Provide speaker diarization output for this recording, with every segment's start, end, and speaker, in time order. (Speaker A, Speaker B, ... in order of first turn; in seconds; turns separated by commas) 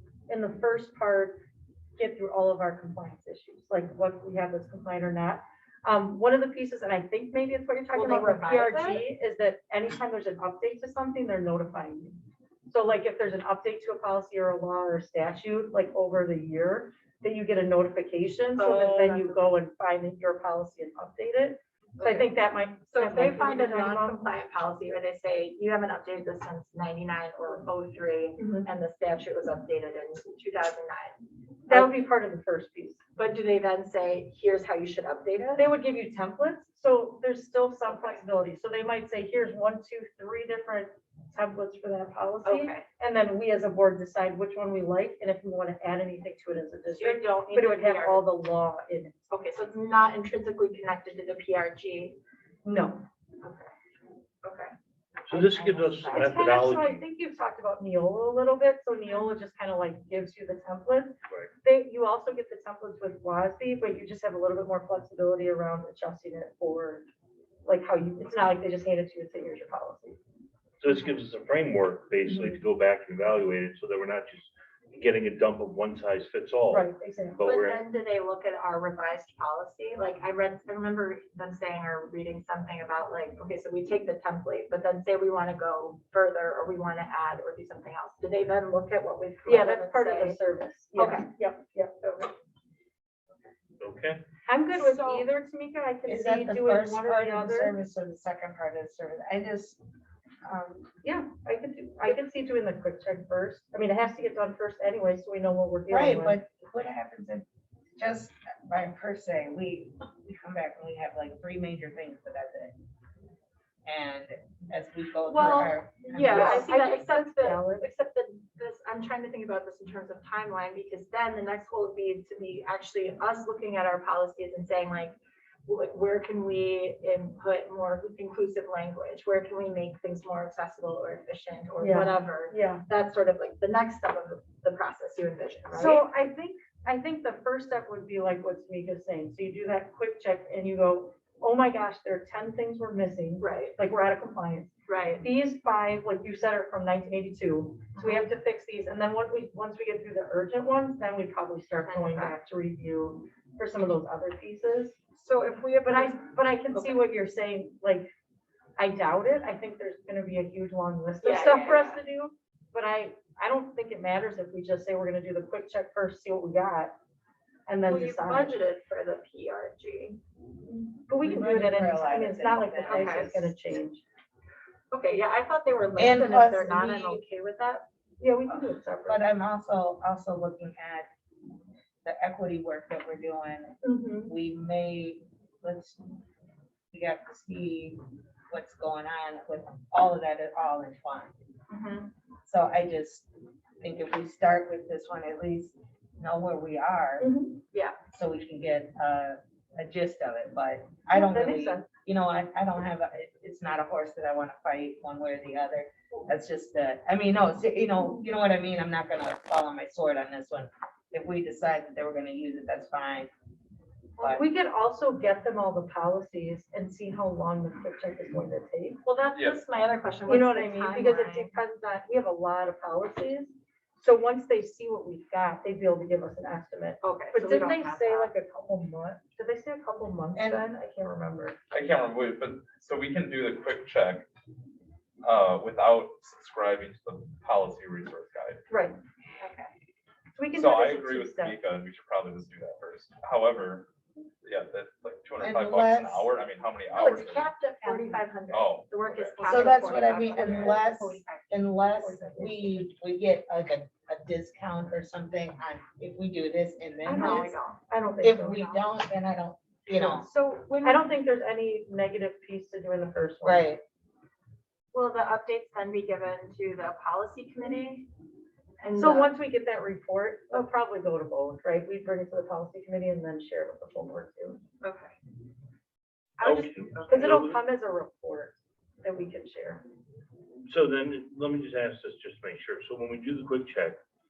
Speaker A: 0.3-1.4, Speaker A: 2.0-12.2, Speaker B: 7.9-9.0, Speaker A: 12.7-24.2, Speaker B: 18.6-19.4, Speaker B: 22.0-22.3, Speaker B: 22.9-31.9, Speaker A: 28.4-28.7, Speaker A: 31.7-33.0, Speaker B: 33.2-35.6, Speaker A: 35.5-49.2, Speaker B: 37.9-38.2, Speaker B: 42.4-42.9, Speaker B: 46.9-48.3, Speaker B: 49.3-52.2, Speaker A: 52.6-53.0, Speaker B: 53.4-53.7, Speaker B: 54.4-54.7, Speaker C: 55.3-57.0, Speaker B: 55.3-56.3, Speaker A: 56.1-67.1, Speaker B: 59.1-59.3, Speaker A: 67.7-70.2, Speaker C: 70.8-77.8, Speaker A: 72.3-72.6, Speaker A: 76.7-77.4, Speaker B: 77.4-90.4, Speaker A: 89.5-91.9, Speaker B: 91.0-91.3, Speaker B: 92.0-92.3, Speaker C: 93.8-94.2, Speaker A: 94.5-97.8, Speaker B: 94.7-95.3, Speaker D: 96.1-99.8, Speaker D: 100.4-100.9, Speaker A: 101.0-106.4, Speaker D: 105.9-107.5, Speaker D: 108.0-112.8, Speaker D: 113.8-116.7, Speaker B: 115.3-125.2, Speaker A: 116.2-117.8, Speaker B: 125.7-136.0, Speaker A: 131.8-132.8, Speaker A: 135.7-155.0, Speaker B: 143.4-143.8, Speaker B: 144.9-145.2, Speaker B: 147.9-148.2, Speaker B: 151.9-152.4, Speaker B: 155.2-157.0, Speaker A: 155.8-158.1, Speaker A: 158.8-166.9, Speaker B: 161.2-162.0, Speaker A: 167.7-168.6, Speaker B: 167.8-170.2, Speaker A: 171.1-174.0, Speaker D: 171.1-173.5, Speaker B: 172.9-173.5, Speaker B: 174.9-177.9, Speaker D: 176.0-177.2, Speaker A: 178.2-179.2, Speaker D: 178.5-181.1, Speaker D: 182.0-186.0, Speaker B: 183.9-184.3, Speaker A: 183.9-184.3, Speaker D: 186.9-188.0, Speaker D: 188.5-191.3, Speaker B: 191.7-192.1, Speaker D: 192.5-193.3, Speaker D: 193.8-197.4, Speaker A: 197.2-197.6, Speaker D: 198.1-213.3, Speaker A: 201.1-201.9, Speaker A: 214.2-219.0, Speaker D: 214.2-214.5, Speaker B: 219.1-221.5, Speaker E: 219.3-219.6, Speaker A: 220.3-231.6, Speaker B: 227.0-228.3, Speaker D: 230.4-230.7, Speaker E: 231.7-234.3, Speaker E: 235.2-238.6, Speaker A: 238.7-239.0, Speaker B: 239.4-239.7, Speaker A: 240.3-241.6, Speaker E: 240.5-243.9, Speaker E: 244.4-247.6, Speaker D: 245.4-246.3, Speaker B: 246.9-251.6, Speaker D: 247.8-248.1, Speaker E: 248.5-249.7, Speaker D: 249.5-257.5, Speaker A: 250.3-250.8, Speaker A: 252.0-252.8, Speaker A: 257.1-258.7, Speaker B: 257.1-257.8, Speaker D: 258.2-260.3, Speaker B: 258.5-258.8, Speaker B: 259.9-261.1, Speaker A: 260.0-263.7, Speaker D: 263.4-263.8, Speaker B: 264.9-268.1, Speaker B: 268.8-269.4, Speaker A: 268.9-274.6, Speaker B: 274.8-275.1, Speaker B: 276.4-277.2, Speaker E: 276.4-276.7, Speaker C: 276.4-277.6, Speaker A: 277.1-279.8, Speaker C: 280.7-284.0